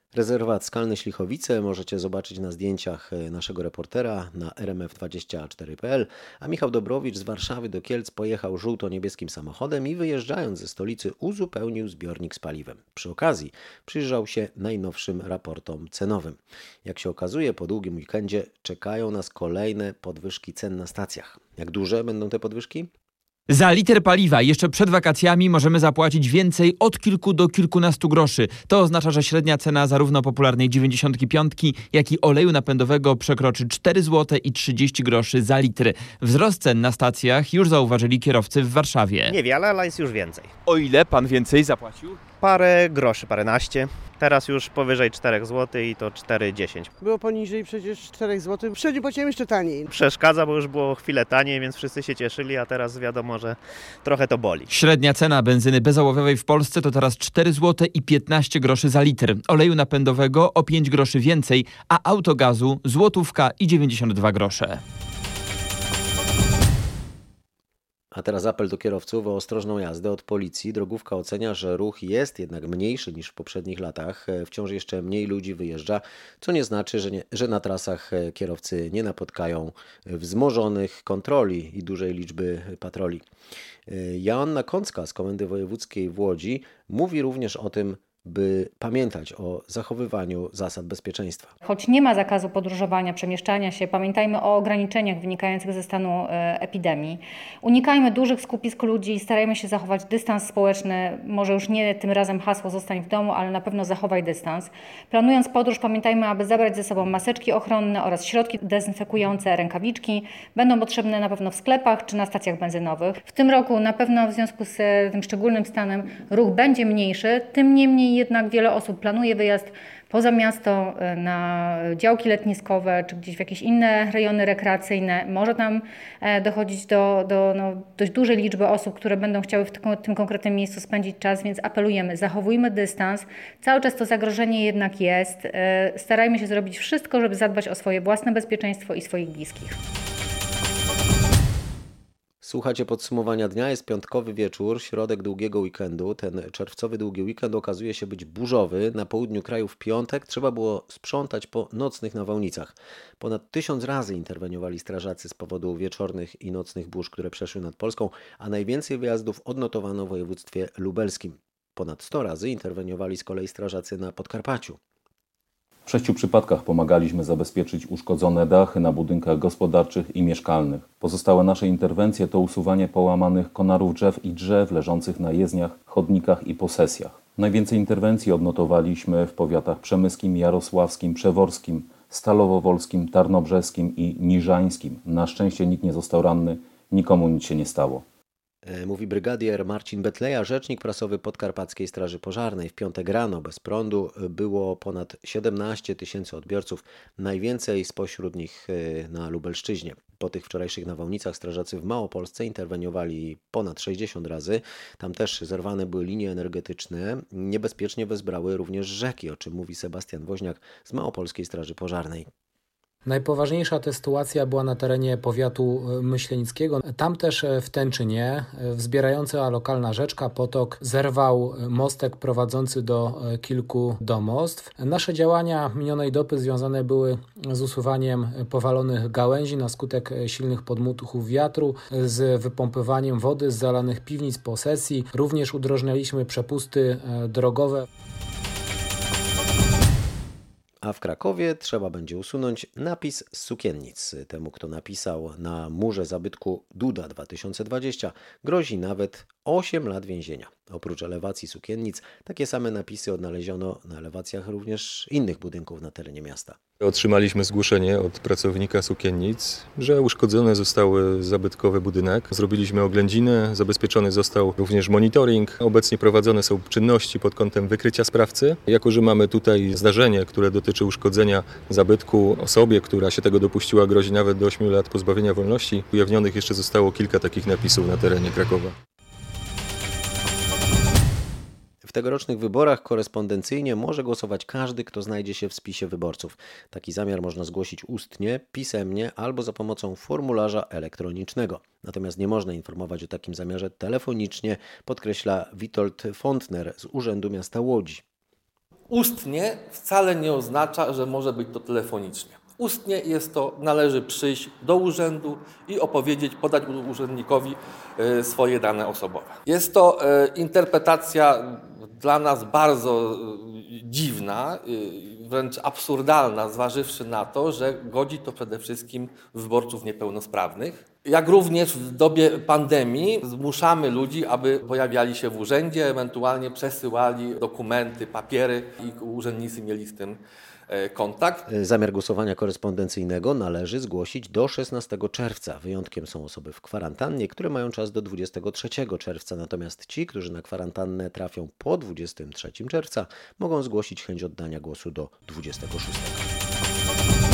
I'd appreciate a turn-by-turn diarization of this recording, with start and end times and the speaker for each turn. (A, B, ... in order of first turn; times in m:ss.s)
0:00.1-0:22.9 A
0:23.5-0:39.3 B
0:39.2-0:40.5 C
0:40.6-0:42.2 B
0:42.4-0:46.9 C
0:47.0-0:49.9 D
0:49.9-0:54.7 C
0:54.7-1:04.8 B
1:08.1-1:23.2 A
1:23.9-1:31.5 A
1:31.6-2:19.8 E
2:22.4-2:44.8 A
2:45.8-3:08.0 F
3:08.6-3:32.3 A
3:33.0-3:57.8 G
4:00.8-4:16.6 A
4:16.8-4:38.7 H
4:41.8-4:58.0 A
4:58.9-5:31.4 I
5:31.5-5:46.3 A